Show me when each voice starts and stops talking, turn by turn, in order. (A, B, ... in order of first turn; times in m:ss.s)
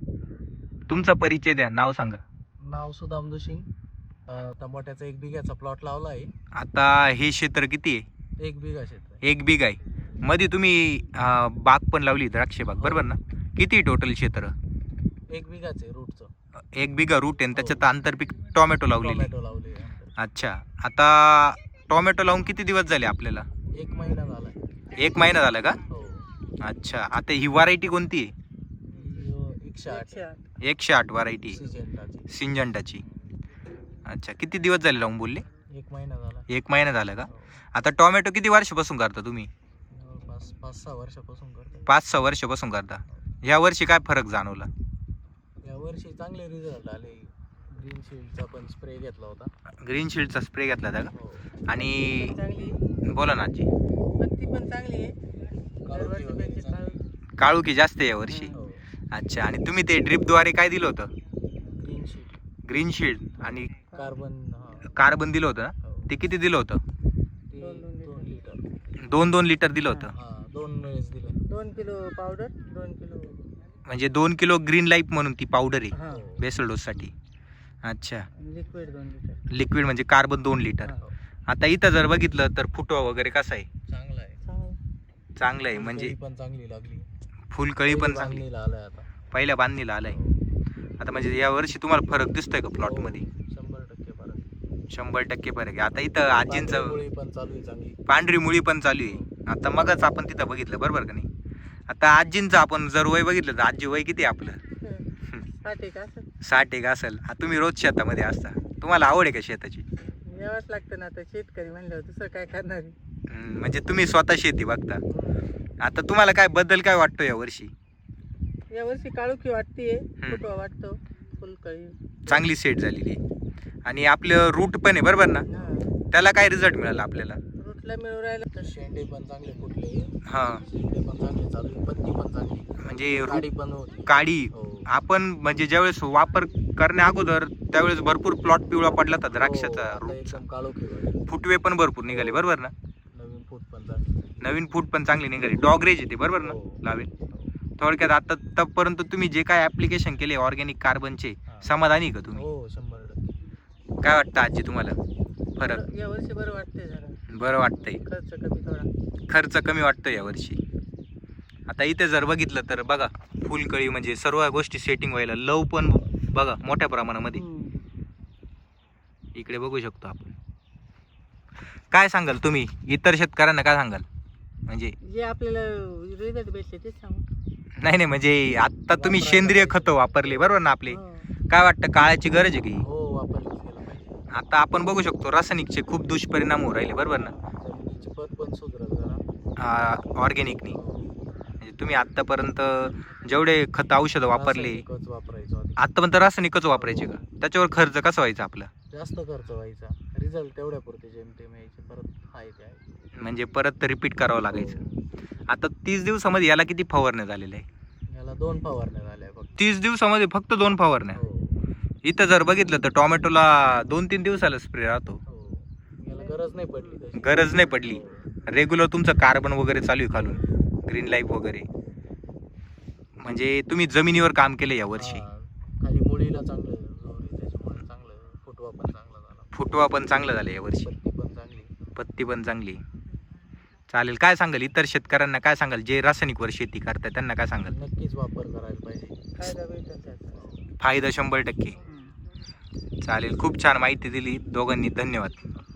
0:00.9-0:02.2 A
0:02.6-0:03.7 B
0:04.3-0:06.3 B
0:06.6-0:08.0 A
0:08.4-0:09.2 B
0:09.2-0:14.5 A
0:12.8-0:13.2 B
0:15.3-0:16.3 B
0:16.7-0:19.3 A
0:17.5-0:17.9 B
0:19.0-0:20.1 B
0:20.2-0:23.5 A
0:23.7-0:24.8 B
0:24.9-0:25.8 A
0:25.9-0:26.3 B
0:26.6-0:28.3 A
0:28.9-0:30.3 B
0:29.9-0:30.4 C
0:30.6-0:31.6 A
0:31.5-0:32.3 B
0:32.3-0:33.0 A
0:34.0-0:35.4 A
0:35.7-0:36.5 B
0:36.5-0:39.5 A
0:37.3-0:37.6 B
0:39.9-0:41.9 B
0:41.9-0:44.7 A
0:45.6-0:49.5 B
0:49.8-0:51.1 A
0:51.1-0:51.6 B
0:51.7-0:52.4 A
0:52.1-0:52.8 C
0:53.1-0:53.7 A
0:54.2-0:55.2 C
0:55.8-0:57.0 B
0:55.9-0:57.0 C
0:57.4-0:58.6 A
0:58.3-0:58.6 C
0:58.5-0:58.9 B
0:59.1-1:01.1 A
1:01.7-1:02.4 B
1:02.7-1:03.7 A
1:03.4-1:05.0 B
1:04.9-1:06.8 A
1:05.8-1:06.1 B
1:07.5-1:08.6 B
1:07.6-1:08.3 C
1:09.0-1:10.1 A
1:10.1-1:11.5 B
1:11.5-1:13.5 C
1:13.8-1:17.1 A
1:15.9-1:16.3 C
1:16.0-1:16.4 B
1:17.8-1:18.3 A
1:18.3-1:19.4 C
1:19.5-1:20.9 A
1:21.5-1:23.7 A
1:23.9-1:24.4 B
1:24.4-1:24.8 C
1:25.4-1:26.1 A
1:25.7-1:27.1 B
1:27.5-1:28.4 A
1:27.9-1:29.1 B
1:29.3-1:30.2 A
1:30.1-1:30.5 B
1:31.0-1:33.2 A
1:32.8-1:34.5 B
1:34.9-1:37.0 A
1:36.2-1:38.0 B
1:38.1-1:41.3 A
1:39.0-1:39.3 B
1:41.9-1:44.6 A
1:44.8-1:45.0 C
1:45.6-1:46.3 C
1:46.4-1:49.8 A
1:50.2-1:52.9 C
1:53.3-1:55.0 A
1:55.1-1:55.4 B
1:55.8-1:57.7 A
1:58.7-2:02.0 C
2:02.3-2:03.2 A
2:03.8-2:05.5 A
2:05.5-2:05.8 B
2:05.5-2:05.9 C
2:06.1-2:07.4 A
2:07.6-2:08.5 C
2:08.5-2:14.9 B
2:10.3-2:10.6 A
2:12.8-2:13.5 A
2:14.0-2:20.4 A
2:19.4-2:21.3 B
2:21.3-2:22.7 A
2:22.1-2:22.5 B
2:23.1-2:24.4 B
2:24.4-2:27.1 A
2:26.4-2:27.5 B
2:27.8-2:32.4 A
2:31.5-2:31.7 B
2:32.3-2:33.3 B
2:34.0-2:35.0 A
2:35.6-2:35.8 A
2:35.6-2:37.2 C
2:37.3-2:38.0 A
2:37.8-2:38.9 C
2:39.3-2:40.6 A
2:41.7-2:47.4 A
2:47.3-2:47.8 C
2:49.3-2:50.3 A
2:51.9-2:54.0 A
2:54.7-2:55.0 A
2:55.0-2:57.2 C
2:57.8-3:02.8 A
2:58.9-3:00.6 B
3:00.8-3:01.3 C
3:02.8-3:04.2 B
3:04.3-3:07.3 A
3:07.1-3:07.4 C
3:07.5-3:09.2 B
3:09.6-3:10.8 A
3:10.7-3:11.2 B
3:11.6-3:14.8 A
3:14.3-3:15.8 B
3:15.8-3:18.7 A
3:16.7-3:17.2 B
3:18.9-3:23.0 B
3:23.2-3:24.8 A
3:24.5-3:25.0 B
3:25.5-3:27.6 A
3:28.1-3:29.6 B
3:29.6-3:31.2 A
3:31.1-3:31.6 B
3:32.0-3:35.2 A
3:35.3-3:38.3 B
3:37.2-3:41.7 A
3:40.1-3:40.4 B
3:43.2-3:45.2 A
3:44.9-3:49.5 B
3:49.5-3:50.9 A
3:50.4-3:51.8 B
3:52.0-3:52.8 A
3:53.9-3:57.7 A
3:57.7-3:59.5 B
3:59.4-4:00.4 C
4:00.4-4:00.6 B
4:00.8-4:01.8 A
4:03.0-4:05.4 A